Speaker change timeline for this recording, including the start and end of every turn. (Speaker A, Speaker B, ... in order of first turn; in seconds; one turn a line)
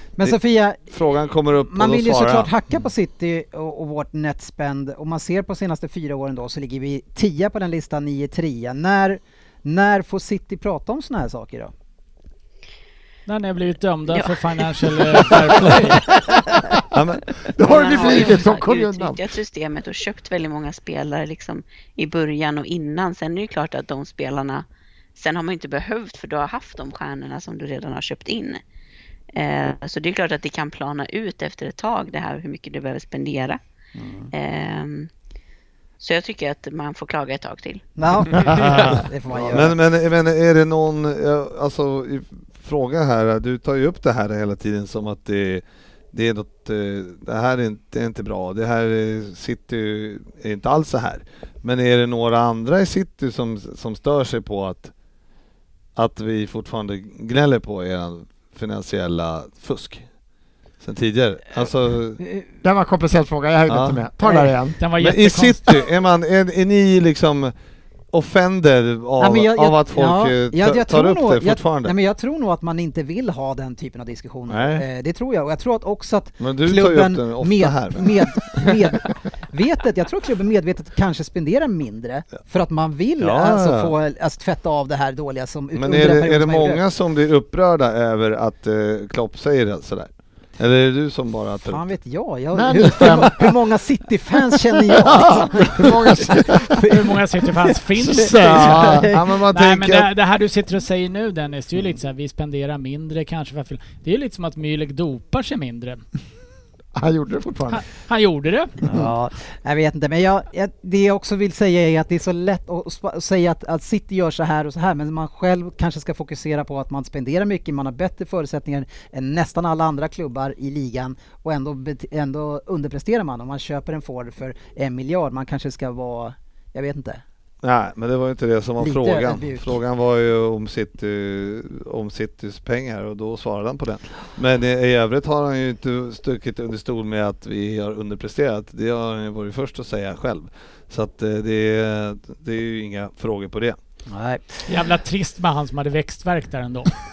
Speaker A: 0.2-0.8
Speaker B: 0.2-2.5
Speaker A: 1.6-11.7
Speaker C: 13.3-16.1
Speaker D: 14.1-14.4
Speaker E: 16.3-16.8
Speaker B: 16.9-17.3
Speaker E: 17.5-19.2
Speaker D: 17.6-28.6
Speaker D: 29.3-33.6
Speaker A: 34.0-34.3
Speaker D: 34.3-35.1
Speaker D: 36.0-38.8
Speaker A: 38.0-39.8
Speaker B: 38.7-54.9
Speaker B: 56.0-60.1
Speaker B: 60.8-62.2
Speaker A: 62.2-62.5
Speaker E: 62.6-64.8
Speaker B: 63.7-64.0
Speaker A: 64.2-64.5
Speaker C: 64.8-65.8
Speaker B: 65.0-67.5
Speaker B: 68.1-71.9
Speaker A: 69.2-86.8
Speaker B: 74.5-74.8
Speaker B: 76.4-78.7
Speaker B: 83.2-83.9
Speaker B: 85.7-91.9
Speaker A: 91.7-97.1
Speaker E: 92.5-93.5
Speaker E: 94.9-97.0
Speaker C: 96.9-106.0
Speaker E: 97.9-100.0
Speaker A: 98.7-99.2
Speaker E: 107.0-107.8
Speaker C: 107.7-108.8
Speaker A: 108.8-127.2
Speaker B: 127.6-143.8
Speaker A: 128.8-129.8
Speaker A: 144.1-144.7
Speaker C: 144.7-146.9